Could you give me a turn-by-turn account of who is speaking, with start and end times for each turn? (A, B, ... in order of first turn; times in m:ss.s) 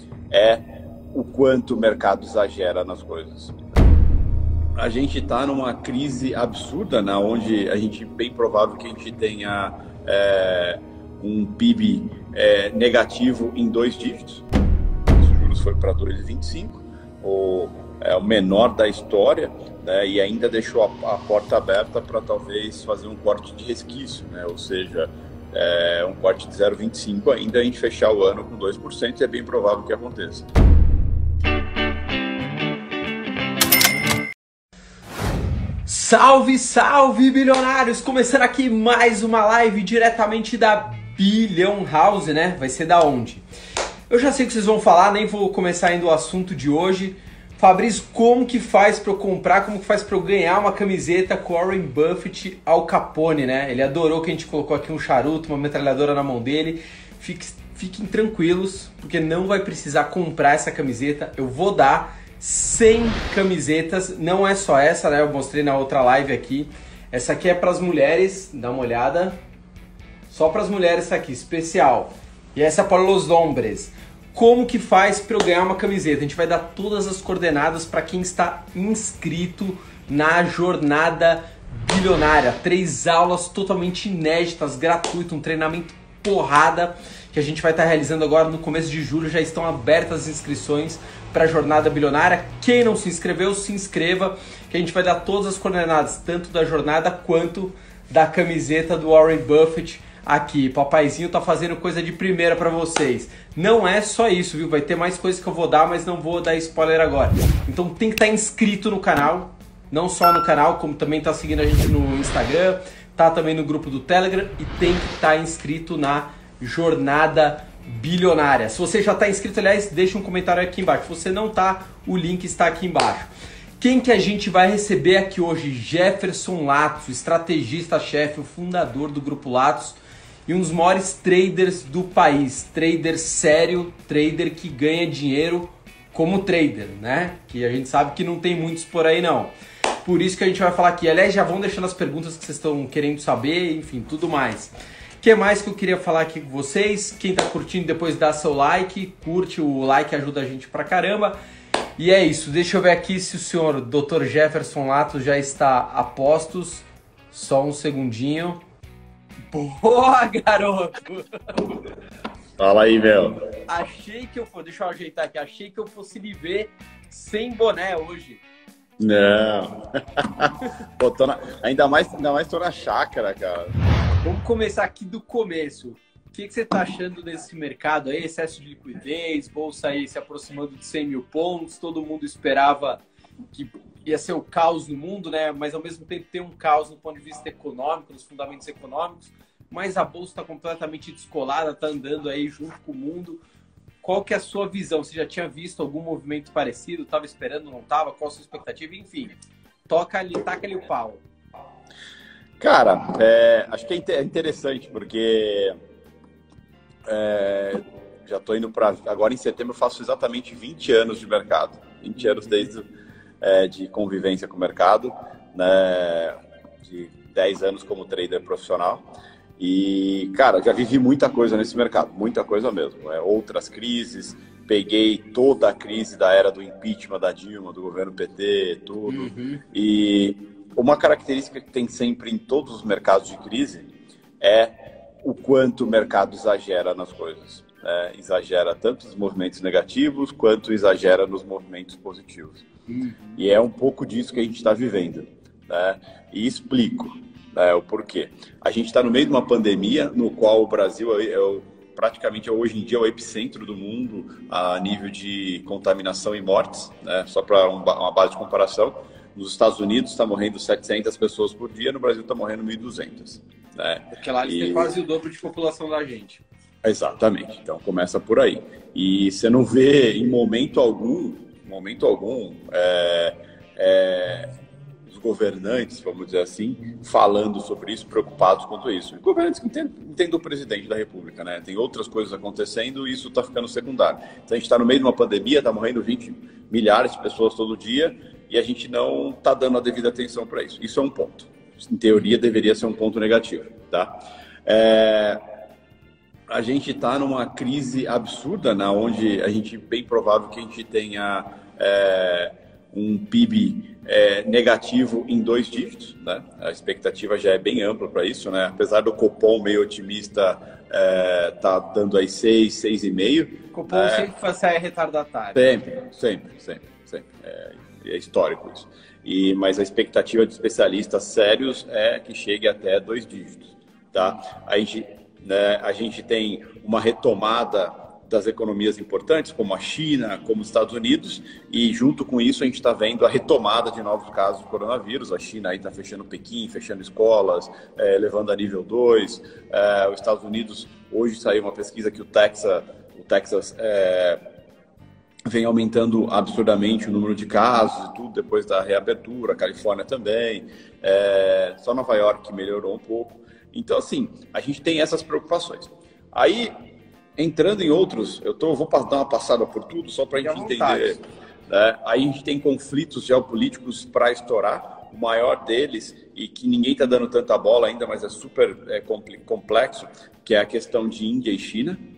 0:00.3-0:03.6 A
0:04.8-0:14.4 A
0:15.1-0:30.4 A
0:35.9-0:43.4 B
0:44.1-1:09.4 B
1:10.3-2:31.4 B
2:32.0-2:38.6 B
2:39.5-2:41.8 B
2:42.6-2:43.4 A
2:43.7-2:48.4 B
2:49.0-2:53.9 A
2:54.2-3:13.4 B
3:14.0-3:21.2 B
3:22.6-3:25.7 A
3:27.1-3:32.9 A
3:32.2-3:32.7 B
3:33.4-3:53.9 A
3:49.1-3:49.6 B
3:54.4-4:02.7 A
4:02.9-4:03.4 B
4:03.4-4:24.9 A
4:24.1-4:26.4 B
4:26.8-4:34.5 A
4:35.1-4:55.4 A
4:56.5-5:14.3 A
5:13.7-5:15.7 B
5:15.6-5:44.4 A
5:45.5-5:56.7 A
5:57.4-6:12.0 A
6:00.4-6:01.2 B